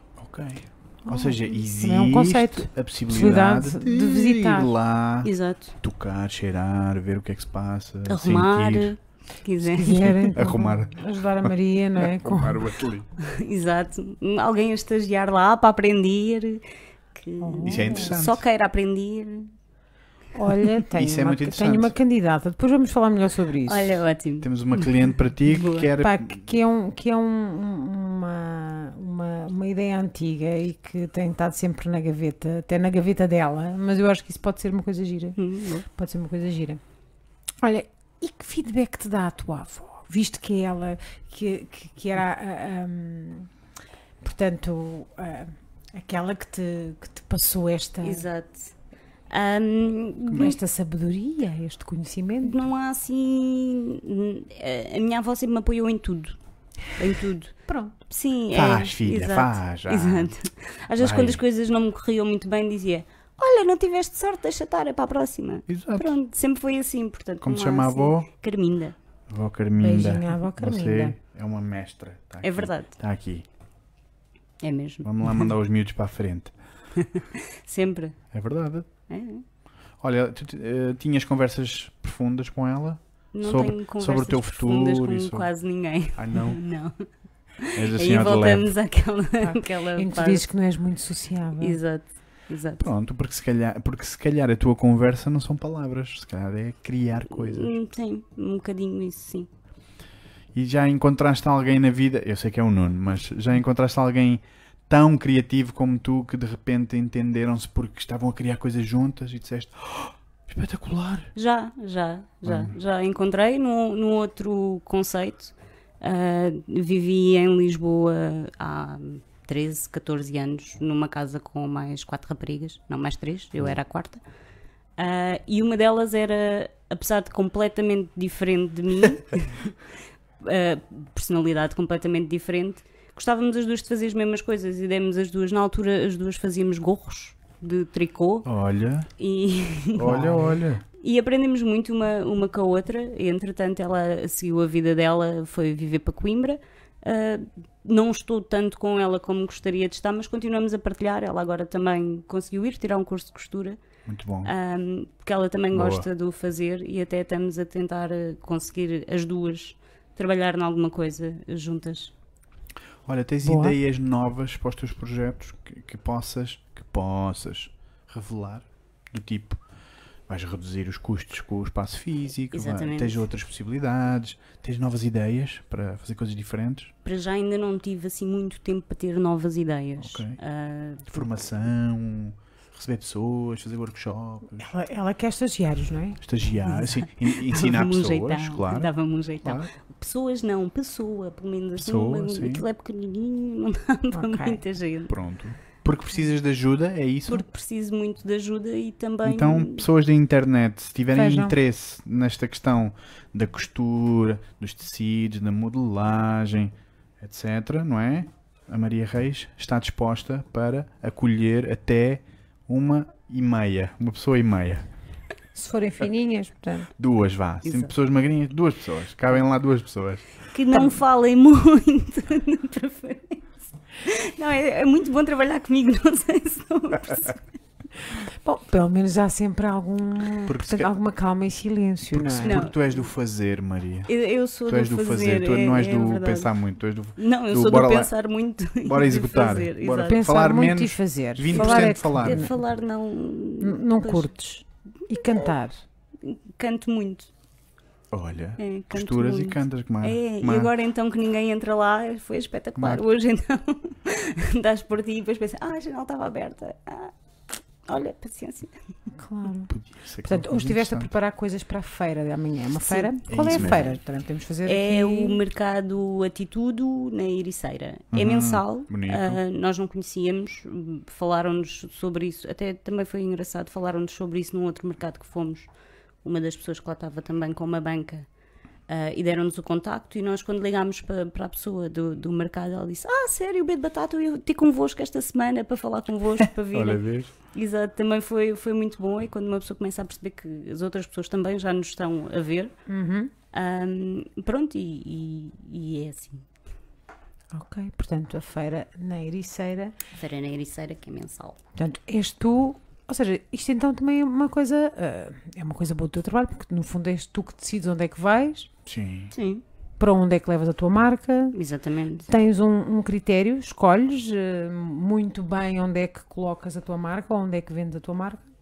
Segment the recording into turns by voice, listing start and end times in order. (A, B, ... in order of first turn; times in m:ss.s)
0:00.2-0:08.9 A
0:01.0-0:04.7 B
0:05.2-0:05.8 C
0:08.0-0:10.2 C
0:09.6-0:12.7 B
0:10.0-0:13.1 A
0:13.2-0:16.6 C
0:17.1-0:19.5 C
0:17.4-0:18.2 B
0:17.6-0:18.4 A
0:20.3-0:24.0 B
0:20.9-0:21.9 A
0:23.6-0:25.9 C
0:24.4-0:26.4 A
0:26.0-0:36.8 B
0:35.4-0:35.8 C
0:37.6-0:43.5 B
0:44.2-0:48.3 B
0:48.0-0:48.7 C
0:49.3-0:50.6 C
0:50.3-0:52.6 B
0:52.4-0:56.4 C
0:56.9-0:57.5 C
0:57.7-0:57.9 B
0:58.1-1:09.0 C
0:58.5-1:00.3 A
1:01.0-1:01.4 A
1:05.7-1:06.1 A
1:07.4-1:08.3 A
1:09.3-1:13.4 A
1:09.8-1:11.2 B
1:12.4-1:12.9 C
1:14.6-1:15.4 C
1:15.0-1:16.5 A
1:17.0-1:18.2 C
1:18.3-1:18.9 A
1:19.1-1:19.4 C
1:20.0-1:25.5 A
1:23.3-1:27.0 C
1:26.1-1:26.6 A
1:27.6-1:30.4 C
1:27.7-1:28.7 A
1:29.4-1:31.8 B
1:31.6-1:32.9 C
1:32.8-1:37.7 A
1:37.2-1:39.5 C
1:40.5-1:51.3 A
1:51.3-2:04.2 C
1:52.4-1:52.7 A
2:05.0-2:09.8 C
2:10.4-2:18.5 C
2:18.4-2:19.1 A
2:19.2-2:33.8 C
2:19.9-2:20.8 A
2:34.0-2:34.5 A
2:34.4-2:42.1 C
2:35.7-2:36.1 A
2:43.0-2:49.6 A
2:43.4-2:43.7 B
2:50.3-2:56.9 A
2:52.5-2:53.2 C
2:57.0-3:01.3 C
3:00.0-3:00.4 A
3:01.1-3:04.7 A
3:04.6-3:06.2 B
3:06.2-3:08.9 A
3:06.7-3:15.1 C
3:09.4-3:09.7 A
3:11.8-3:12.6 A
3:14.1-3:14.6 B
3:15.1-3:17.4 A
3:17.3-3:19.8 C
3:19.2-3:34.9 A
3:21.1-3:21.5 B
3:35.5-3:36.9 B
3:37.0-3:40.3 A
3:37.6-3:37.9 C
3:40.5-3:47.4 C
3:48.1-3:52.6 B
3:50.5-3:50.9 A
3:52.1-3:54.1 A
3:52.4-3:52.8 C
3:54.1-3:56.5 C
3:54.6-3:58.1 A
3:57.2-4:00.2 C
3:58.8-4:02.5 A
4:00.0-4:02.6 B
4:01.5-4:04.3 C
4:03.6-4:05.8 B
4:06.2-4:07.3 C
4:08.1-4:10.7 A
4:08.6-4:17.1 C
4:12.8-4:13.0 A
4:17.9-4:18.7 C
4:19.2-4:19.7 B
4:19.7-4:21.1 A
4:20.2-4:25.4 B
4:22.8-4:24.0 C
4:23.3-4:23.9 A
4:24.6-4:35.7 C
4:28.1-4:29.4 A
4:36.2-4:38.3 C
4:38.9-4:52.7 C
4:46.7-4:47.3 A
4:52.9-4:53.3 B
4:53.5-4:56.5 C
4:57.5-4:59.9 B
5:00.1-5:01.6 C
5:01.8-5:08.7 B
5:08.8-5:09.3 A
5:09.3-5:09.6 C
5:10.0-5:11.6 B
5:11.5-5:12.3 C
5:12.3-5:18.4 B